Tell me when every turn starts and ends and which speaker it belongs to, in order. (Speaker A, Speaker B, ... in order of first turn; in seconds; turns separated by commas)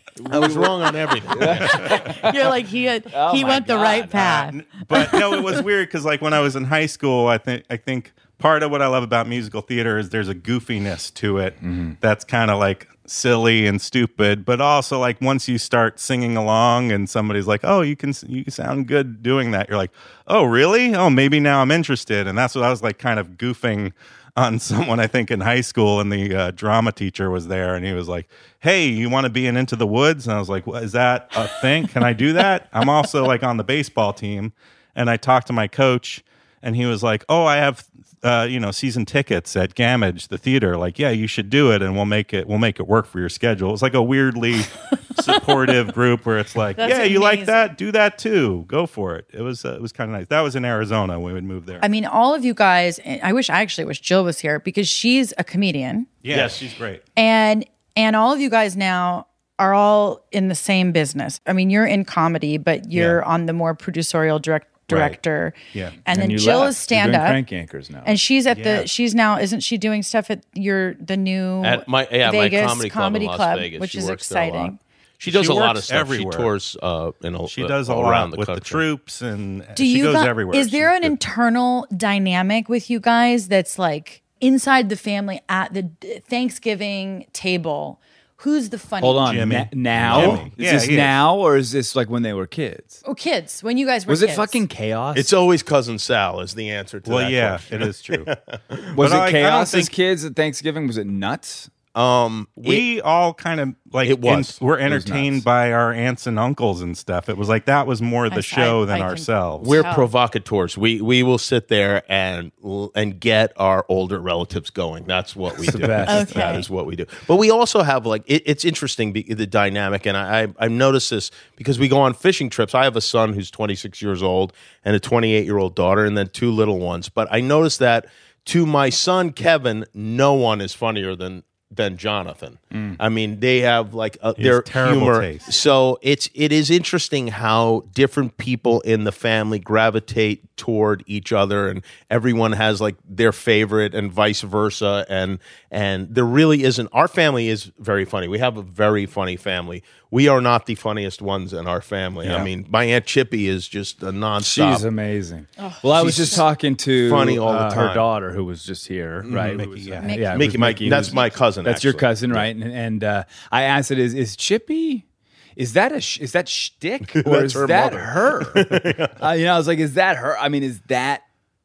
Speaker A: 0.2-2.1, Speaker B: 0.3-2.3, Speaker C: 1.9-5.6, Speaker B: 3.1-4.2, Speaker D: 4.1-51.8, Speaker B: 11.6-12.0, Speaker C: 46.8-47.7, Speaker C: 51.8-56.1, Speaker D: 56.2-57.0, Speaker A: 56.3-56.6, Speaker C: 57.1-67.4, Speaker B: 64.9-65.2, Speaker B: 66.1-68.2, Speaker C: 68.0-74.8, Speaker D: 68.5-68.9, Speaker A: 71.6-78.8, Speaker D: 75.2-76.5, Speaker D: 77.5-81.2, Speaker C: 79.7-89.3, Speaker B: 89.0-93.0, Speaker D: 89.2-91.2, Speaker A: 90.1-90.4, Speaker C: 93.0-94.6, Speaker B: 94.1-95.3, Speaker A: 95.1-98.8, Speaker D: 97.0-98.3, Speaker B: 98.9-101.7, Speaker D: 99.0-99.9, Speaker A: 101.9-102.8, Speaker D: 102.6-109.8, Speaker A: 104.0-104.6, Speaker B: 104.8-105.4, Speaker C: 108.3-110.1, Speaker A: 109.6-154.8, Speaker B: 115.6-116.6, Speaker C: 116.0-116.7, Speaker B: 132.7-133.0, Speaker D: 134.4-135.4, Speaker D: 152.2-152.5, Speaker B: 154.4-165.0, Speaker C: 155.6-156.4, Speaker A: 155.9-158.1, Speaker A: 159.2-159.7, Speaker D: 159.5-160.1, Speaker C: 160.0-161.4, Speaker A: 160.2-162.4, Speaker B: 165.6-168.7, Speaker A: 167.1-169.2, Speaker B: 169.2-171.2